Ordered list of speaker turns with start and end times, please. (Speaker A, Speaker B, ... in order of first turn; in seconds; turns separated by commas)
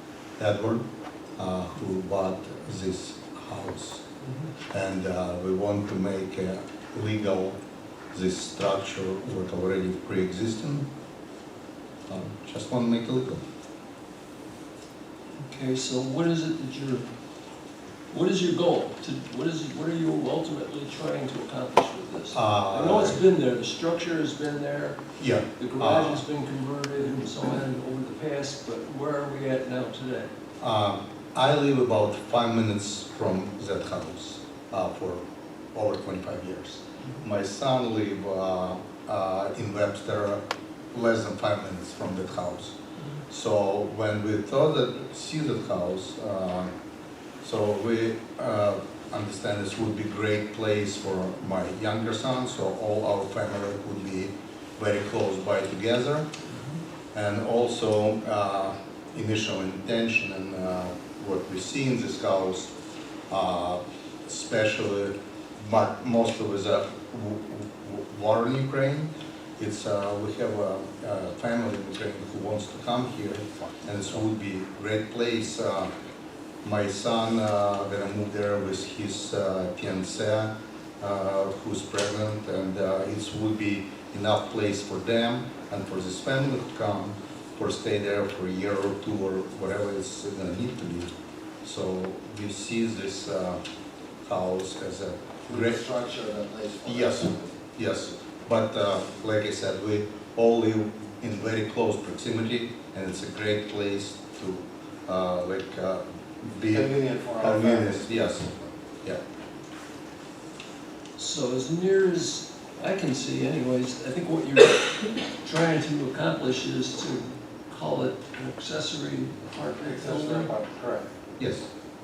Speaker A: 0.4-0.8, Speaker A: 1.4-4.0, Speaker A: 4.7-7.6, Speaker A: 8.1-10.9, Speaker A: 12.1-13.4, Speaker B: 15.4-17.1, Speaker B: 18.1-25.0, Speaker A: 22.3-23.2, Speaker A: 25.2-26.2, Speaker B: 25.6-30.3, Speaker A: 30.6-40.4, Speaker A: 40.9-42.8, Speaker A: 43.3-46.7, Speaker A: 47.4-56.3, Speaker A: 57.1-62.7, Speaker A: 63.3-75.9, Speaker A: 76.6-91.1, Speaker A: 91.6-93.6, Speaker A: 94.2-95.8, Speaker C: 95.5-97.6, Speaker A: 96.8-108.5, Speaker C: 106.7-108.7, Speaker B: 111.2-120.5, Speaker C: 119.8-121.1, Speaker A: 121.4-121.7